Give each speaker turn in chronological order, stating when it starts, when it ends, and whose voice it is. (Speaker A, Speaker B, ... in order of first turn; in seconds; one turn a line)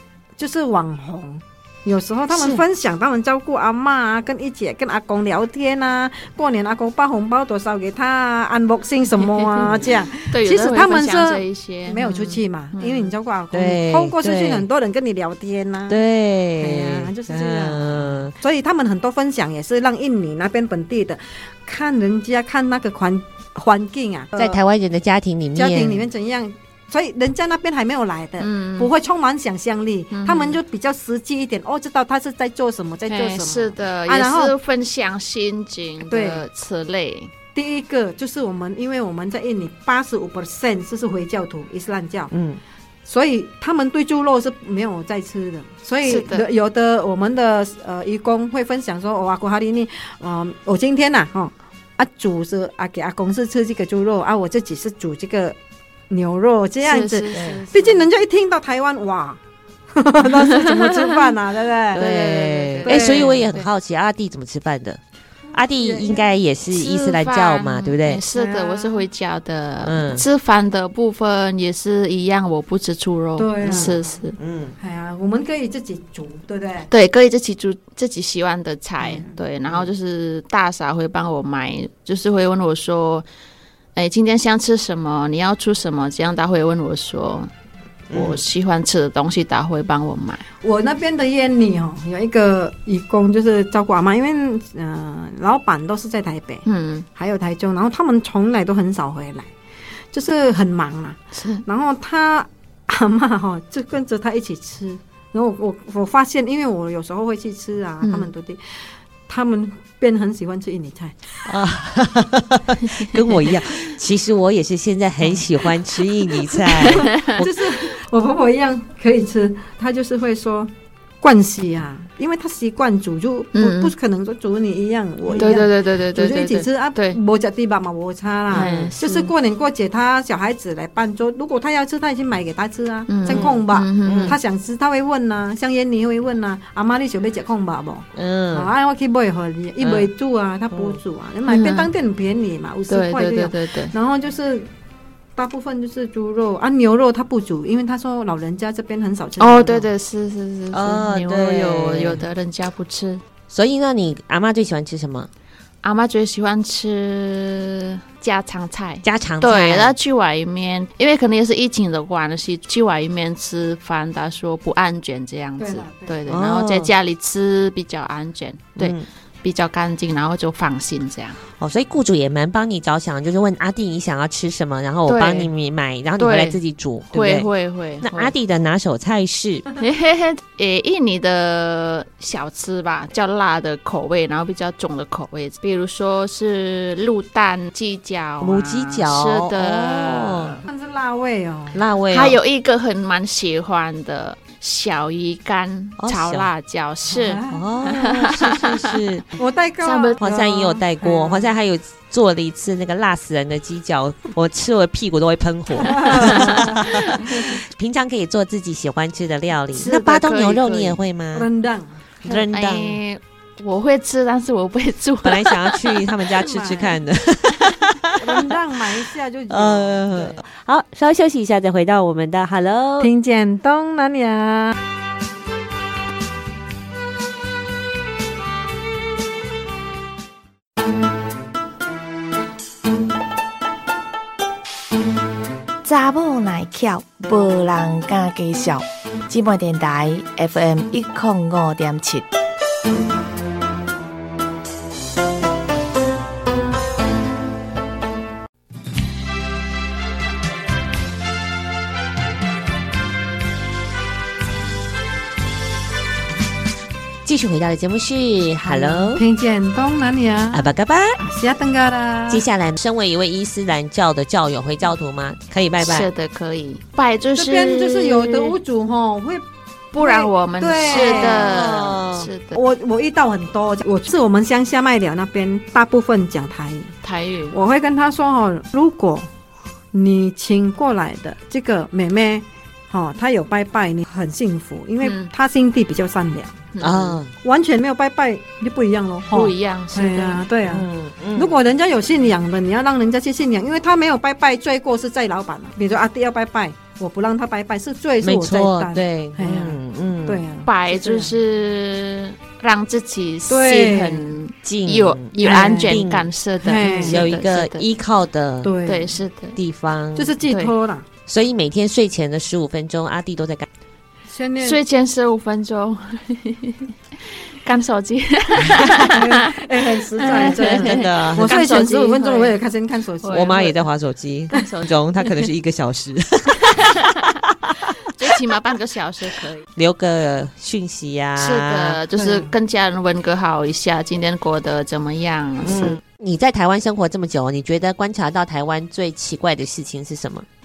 Speaker A: 0.4-16.0
Speaker B: 2.3-2.6
Speaker B: 9.2-13.1
Speaker C: 13.5-14.7
Speaker C: 15.9-18.3
Speaker A: 16.6-24.6
Speaker C: 24.4-26.1
Speaker A: 25.5-34.5
Speaker B: 28.4-28.9
Speaker B: 30.1-30.6
Speaker B: 33.1-37.3
Speaker A: 36.0-36.4
Speaker A: 37.5-42.3
Speaker C: 42.3-42.6
Speaker A: 43.0-55.5
Speaker B: 46.0-46.4
Speaker A: 56.1-59.4
Speaker B: 56.8-58.0
Speaker C: 57.3-57.6
Speaker A: 59.9-62.0
Speaker B: 60.3-61.2
Speaker C: 61.9-65.0
Speaker B: 61.9-63.7
Speaker A: 62.8-63.4
Speaker C: 65.5-68.2
Speaker A: 65.8-66.2
Speaker B: 66.7-74.4
Speaker A: 68.3-69.0
Speaker C: 69.8-70.2
Speaker A: 73.4-74.1
Speaker C: 73.6-74.7
Speaker A: 74.8-76.9
Speaker B: 76.9-83.2
Speaker A: 79.0-79.3
Speaker B: 84.0-87.5
Speaker C: 88.1-88.4
Speaker B: 88.1-90.5
Speaker A: 90.6-99.5
Speaker B: 96.7-97.0
Speaker A: 100.1-111.2
Speaker B: 101.3-101.6
Speaker B: 108.0-108.3
Speaker C: 111.5-117.5
Speaker B: 116.8-117.4
Speaker A: 116.8-120.7
Speaker A: 121.2-144.7
Speaker B: 123.5-123.9
Speaker C: 125.2-125.6
Speaker B: 125.4-127.2
Speaker B: 128.5-129.3
Speaker C: 128.5-128.9
Speaker B: 133.1-134.4
Speaker C: 133.3-133.5
Speaker C: 134.0-134.4
Speaker C: 138.2-138.7
Speaker C: 139.8-140.1
Speaker C: 140.7-141.0
Speaker B: 141.5-141.9
Speaker B: 142.9-143.9
Speaker A: 145.3-149.9
Speaker B: 149.4-153.2
Speaker C: 150.7-152.2
Speaker C: 153.5-155.3
Speaker B: 155.8-171.4
Speaker C: 159.0-159.9
Speaker A: 165.6-166.2
Speaker C: 166.3-166.9
Speaker C: 168.8-169.1
Speaker C: 171.6-177.5
Speaker B: 175.1-175.5
Speaker B: 176.2-176.6
Speaker B: 177.1-178.3
Speaker C: 178.0-179.6
Speaker B: 179.8-190.6
Speaker C: 188.4-190.5
Speaker A: 190.7-191.8
Speaker C: 191.7-192.4
Speaker B: 192.1-198.9
Speaker C: 196.0-196.5
Speaker A: 197.1-197.7
Speaker C: 197.5-199.2
Speaker A: 199.4-201.5
Speaker B: 199.8-200.2
Speaker C: 200.2-211.5
Speaker B: 205.8-207.3
Speaker A: 205.8-206.9
Speaker B: 209.7-211.0
Speaker A: 211.3-212.0
Speaker C: 212.2-213.0
Speaker B: 212.2-216.0
Speaker C: 215.2-218.4
Speaker A: 216.4-217.0
Speaker A: 218.2-220.3
Speaker C: 219.5-223.1
Speaker A: 223.0-224.8
Speaker D: 235.8-242.3
Speaker C: 257.2-259.2
Speaker A: 258.6-260.7
Speaker C: 260.5-261.2
Speaker A: 261.2-262.4
Speaker C: 262.3-266.1
Speaker B: 265.8-268.6
Speaker A: 267.4-269.4
Speaker B: 269.9-272.6
Speaker A: 269.9-271.7
Speaker C: 270.9-272.3
Speaker A: 272.5-276.9
Speaker B: 277.0-277.6
Speaker A: 277.5-279.3
Speaker A: 279.9-286.6
Speaker B: 285.0-285.3
Speaker B: 286.7-287.2
Speaker C: 286.8-287.3
Speaker A: 287.4-301.4
Speaker B: 289.3-290.4
Speaker C: 290.7-291.6
Speaker C: 298.2-300.4
Speaker B: 300.6-307.8
Speaker A: 303.5-304.2
Speaker C: 304.6-306.3
Speaker A: 305.4-306.0
Speaker A: 306.6-307.2
Speaker C: 306.8-308.7
Speaker A: 308.6-309.2
Speaker B: 308.9-309.6
Speaker C: 309.6-310.4
Speaker A: 310.1-311.1
Speaker C: 311.3-313.7
Speaker A: 314.3-314.8
Speaker B: 314.6-316.9
Speaker B: 317.6-319.5
Speaker A: 319.1-323.7
Speaker B: 320.2-322.5
Speaker C: 320.3-321.6
Speaker B: 323.2-323.7
Speaker C: 323.3-327.7
Speaker B: 324.5-325.4
Speaker B: 326.7-327.3
Speaker B: 328.1-329.6
Speaker C: 329.8-332.0
Speaker B: 331.4-336.0
Speaker A: 332.1-332.5
Speaker C: 335.6-340.4